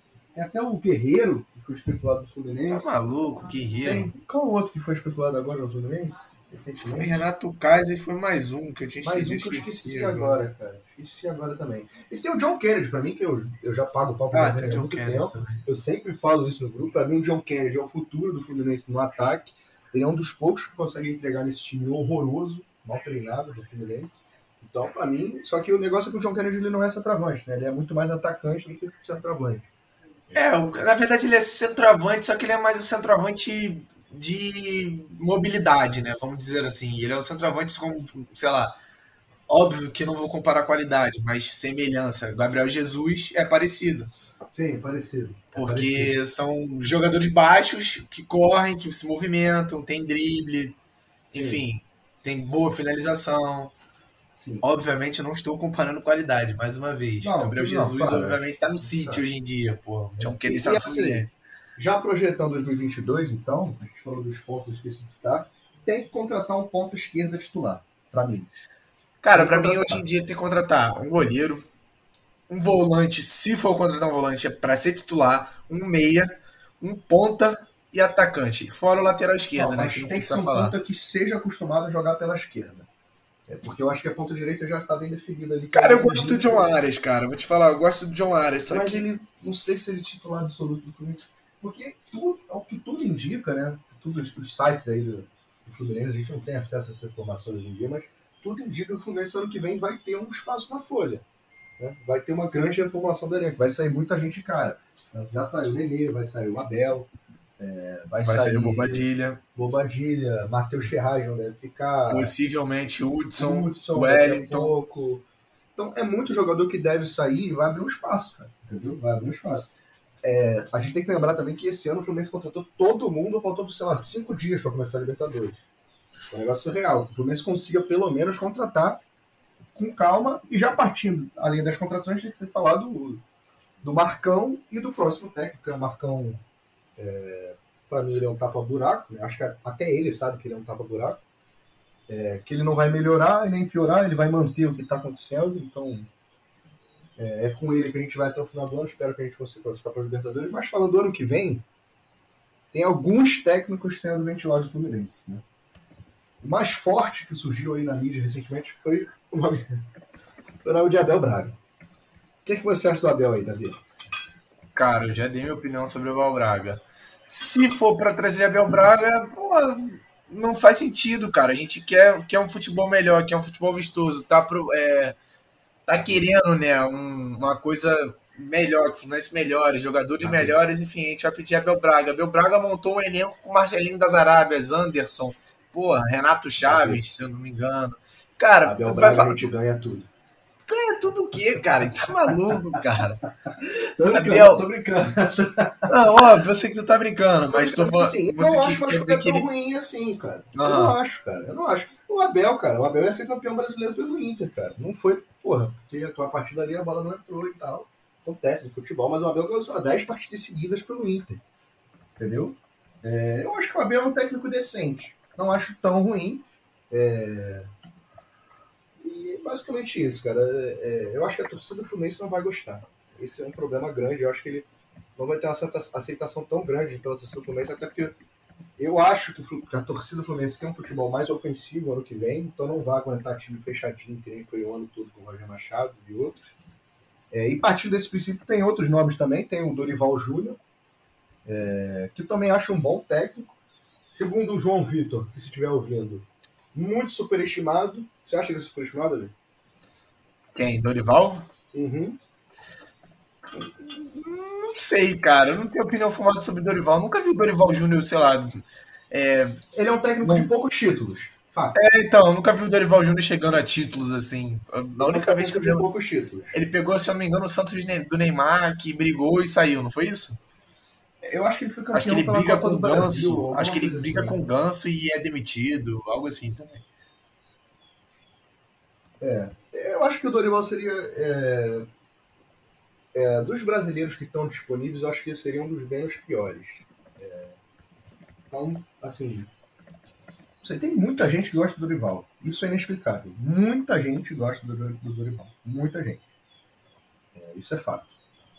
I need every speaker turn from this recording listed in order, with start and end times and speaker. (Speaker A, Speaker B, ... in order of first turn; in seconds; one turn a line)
Speaker A: 0.3-3.1
Speaker B: 2.7-4.1
Speaker A: 3.8-7.2
Speaker B: 7.0-10.4
Speaker A: 9.0-29.7
Speaker B: 14.3-15.6
Speaker B: 30.3-38.8
Speaker B: 39.5-44.1
Speaker A: 44.5-46.2
Speaker B: 45.5-50.8
Speaker A: 51.3-51.6
Speaker B: 51.3-53.7
Speaker A: 54.4-54.6
Speaker B: 54.6-61.4
Speaker A: 57.2-59.2
Speaker A: 60.2-68.5
Speaker B: 69.2-71.7
Speaker A: 69.3-70.0
Speaker B: 72.5-80.8
Speaker A: 79.5-82.9
Speaker A: 83.5-86.7
Speaker B: 85.7-89.0
Speaker A: 88.7-101.2
Speaker A: 101.8-112.3
Speaker B: 108.2-109.4
Speaker B: 112.1-114.7
Speaker A: 113.4-115.2
Speaker A: 115.8-125.7
Speaker A: 126.3-129.0
Speaker A: 129.8-133.2
Speaker A: 133.8-136.4
Speaker A: 137.0-141.2
Speaker A: 142.1-146.1
Speaker A: 147.2-151.6
Speaker A: 152.7-155.4
Speaker A: 156.4-159.8
Speaker A: 160.6-161.6
Speaker A: 162.4-163.8
Speaker B: 164.8-175.2
Speaker B: 175.9-189.5
Speaker A: 180.2-180.6
Speaker A: 186.6-187.0
Speaker A: 188.6-190.1
Speaker B: 190.7-193.2
Speaker A: 193.5-196.1
Speaker B: 194.0-194.7
Speaker B: 195.9-199.5
Speaker A: 197.5-211.4
Speaker B: 200.5-201.0
Speaker A: 212.2-217.7
Speaker A: 219.0-228.2
Speaker A: 228.8-236.6
Speaker A: 237.3-240.6
Speaker A: 241.4-243.5
Speaker A: 244.1-249.3
Speaker B: 250.6-251.5
Speaker A: 251.7-252.2
Speaker B: 253.6-259.6
Speaker A: 259.7-261.8
Speaker B: 260.2-260.5
Speaker B: 261.8-265.9
Speaker A: 265.0-266.6
Speaker B: 266.5-270.4
Speaker A: 271.2-274.4
Speaker B: 271.9-276.8
Speaker A: 279.2-281.9
Speaker A: 283.1-287.6
Speaker A: 288.5-289.5
Speaker A: 290.6-296.2
Speaker A: 297.3-298.1